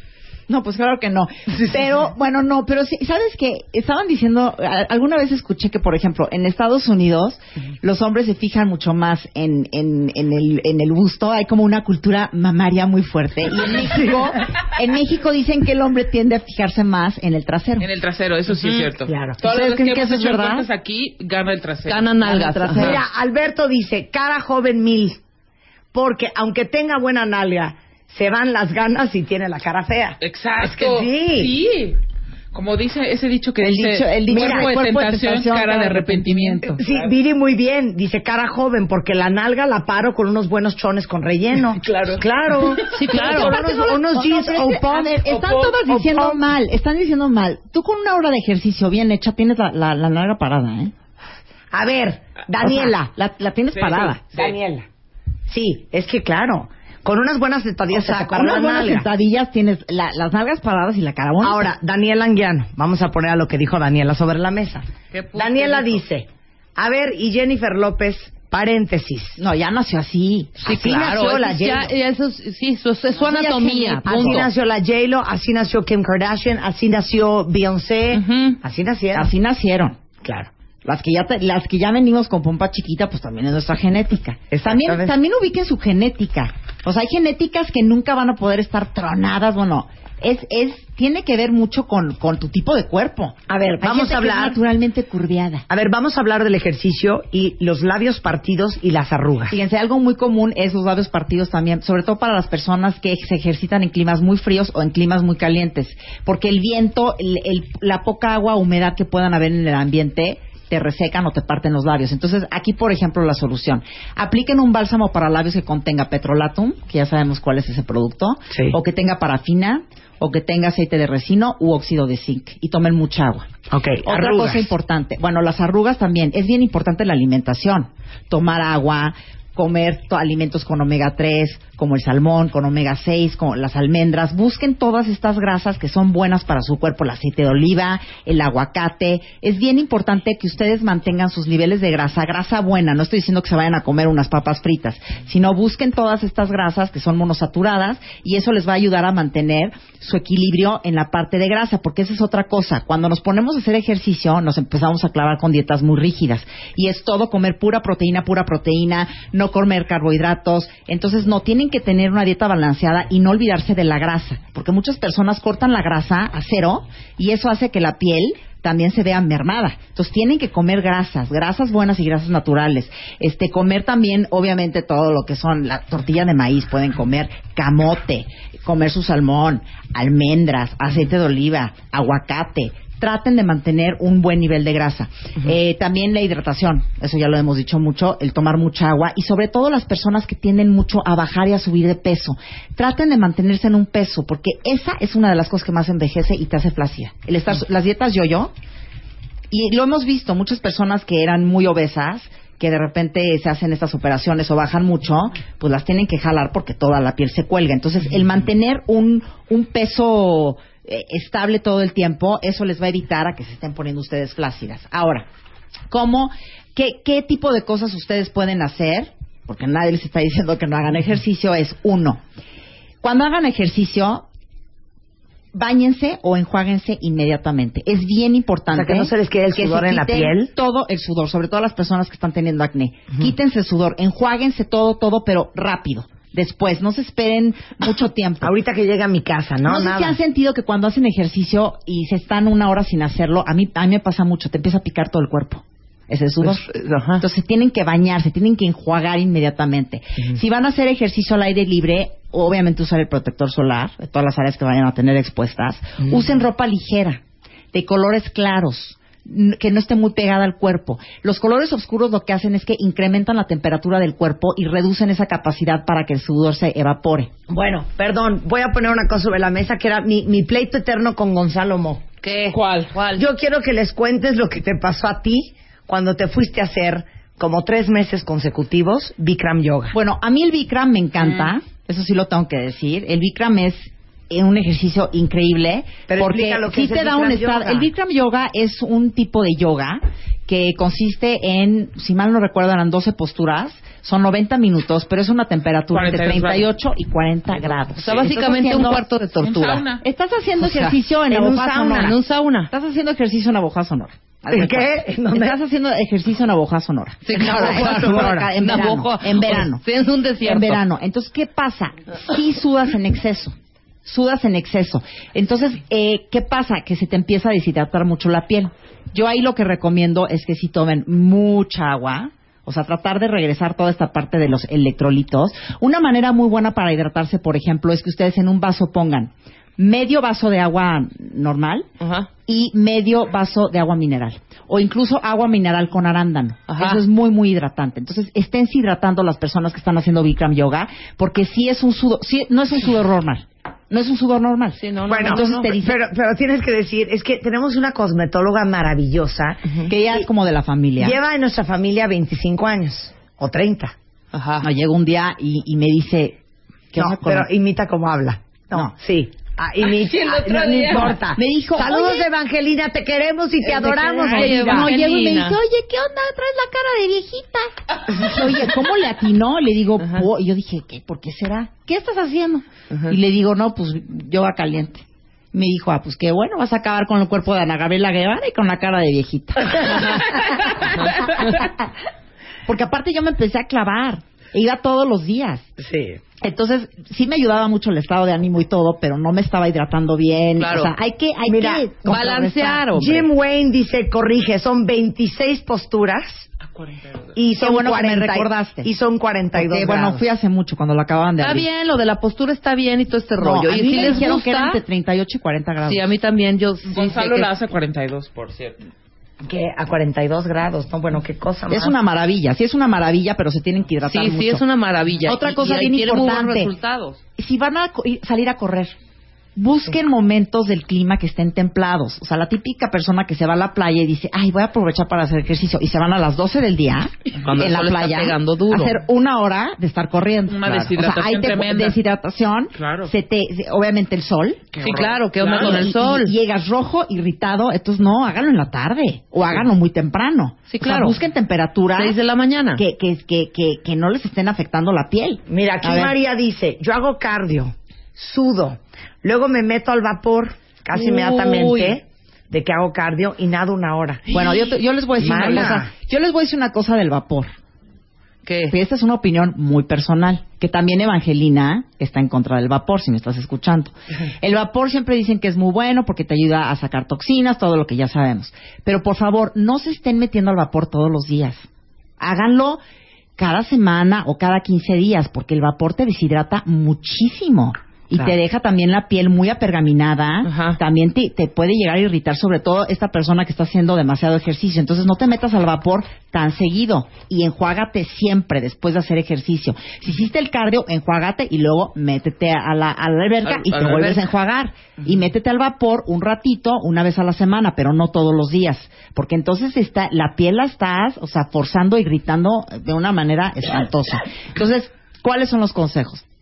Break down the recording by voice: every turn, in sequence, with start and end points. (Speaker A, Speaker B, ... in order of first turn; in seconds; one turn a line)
Speaker A: 0.5-17.9
Speaker B: 17.8-22.1
Speaker C: 19.1-19.4
Speaker A: 19.4-20.7
Speaker D: 21.9-22.9
Speaker A: 22.2-23.0
Speaker C: 22.8-25.2
Speaker C: 25.9-31.5
Speaker B: 30.2-32.0
Speaker B: 32.5-37.1
Speaker A: 33.6-36.8
Speaker C: 34.3-34.7
Speaker C: 36.8-46.4
Speaker B: 41.8-42.2
Speaker D: 42.9-43.6
Speaker A: 43.1-50.9
Speaker C: 51.7-53.1
Speaker A: 52.6-54.2
Speaker B: 53.8-54.5
Speaker C: 54.3-54.9
Speaker C: 55.5-59.1
Speaker A: 57.9-61.7
Speaker C: 61.4-69.4
Speaker D: 65.1-65.6
Speaker A: 69.4-70.6
Speaker C: 70.6-71.9
Speaker D: 70.6-74.5
Speaker A: 73.2-74.4
Speaker C: 74.0-79.3
Speaker D: 78.1-78.6
Speaker A: 79.1-80.0
Speaker C: 80.2-80.5
Speaker A: 80.8-95.6
Speaker C: 84.5-85.1
Speaker C: 93.5-94.6
Speaker C: 95.7-99.6
Speaker A: 99.5-123.5
Speaker C: 123.7-124.7
Speaker A: 124.0-198.5
Speaker A: 199.5-215.3
Speaker A: 215.9-222.2
Speaker A: 223.0-224.2
Speaker A: 225.5-238.5
Speaker C: 228.7-230.5
Speaker C: 238.4-240.2
Speaker A: 239.6-257.2
Speaker D: 246.4-247.2
Speaker A: 257.7-267.3
Speaker C: 267.5-272.0
Speaker D: 272.2-273.2
Speaker B: 272.5-273.0
Speaker C: 273.1-279.9
Speaker A: 279.9-302.1
Speaker C: 286.1-287.9
Speaker B: 295.9-296.7
Speaker D: 298.0-299.8
Speaker B: 299.4-300.0
Speaker D: 300.6-301.0
Speaker C: 301.3-302.1
Speaker D: 301.9-302.7
Speaker A: 302.7-309.8
Speaker C: 304.5-305.5
Speaker D: 307.2-310.8
Speaker C: 307.4-308.5
Speaker A: 310.4-331.9
Speaker D: 332.0-332.3
Speaker A: 332.5-345.9
Speaker D: 336.7-337.0
Speaker D: 344.8-345.8
Speaker C: 345.1-350.2
Speaker A: 349.9-351.1
Speaker C: 351.0-353.9
Speaker D: 354.3-354.7
Speaker A: 354.6-356.4
Speaker A: 356.9-357.5
Speaker C: 356.9-364.9
Speaker B: 359.8-361.2
Speaker A: 361.2-362.3
Speaker A: 363.8-381.7
Speaker D: 364.2-365.6
Speaker B: 364.5-364.8
Speaker D: 372.9-373.1
Speaker A: 382.7-385.7
Speaker C: 385.8-386.2
Speaker A: 386.4-393.0
Speaker D: 390.6-390.9
Speaker C: 391.5-392.0
Speaker D: 392.1-393.2
Speaker C: 392.9-396.5
Speaker B: 396.7-397.3
Speaker C: 397.4-400.2
Speaker A: 397.5-398.9
Speaker A: 399.5-401.7
Speaker D: 401.4-404.8
Speaker A: 403.4-406.1
Speaker D: 405.8-407.5
Speaker B: 406.9-408.8
Speaker C: 409.4-411.9
Speaker A: 411.7-414.6
Speaker D: 414.0-417.2
Speaker A: 415.2-416.7
Speaker A: 417.4-418.9
Speaker A: 419.6-434.8
Speaker D: 427.4-429.0
Speaker B: 430.5-432.0
Speaker B: 432.8-433.1
Speaker B: 434.8-435.8
Speaker D: 434.8-436.3
Speaker A: 435.5-442.2
Speaker D: 440.7-441.2
Speaker D: 441.9-442.8
Speaker A: 442.8-446.0
Speaker C: 445.5-454.4
Speaker D: 450.9-452.0
Speaker A: 454.3-457.5
Speaker C: 455.2-455.9
Speaker D: 455.3-455.6
Speaker D: 458.4-458.7
Speaker A: 458.7-471.6
Speaker A: 472.2-472.8
Speaker A: 473.4-506.2
Speaker D: 480.4-480.8
Speaker D: 493.4-494.3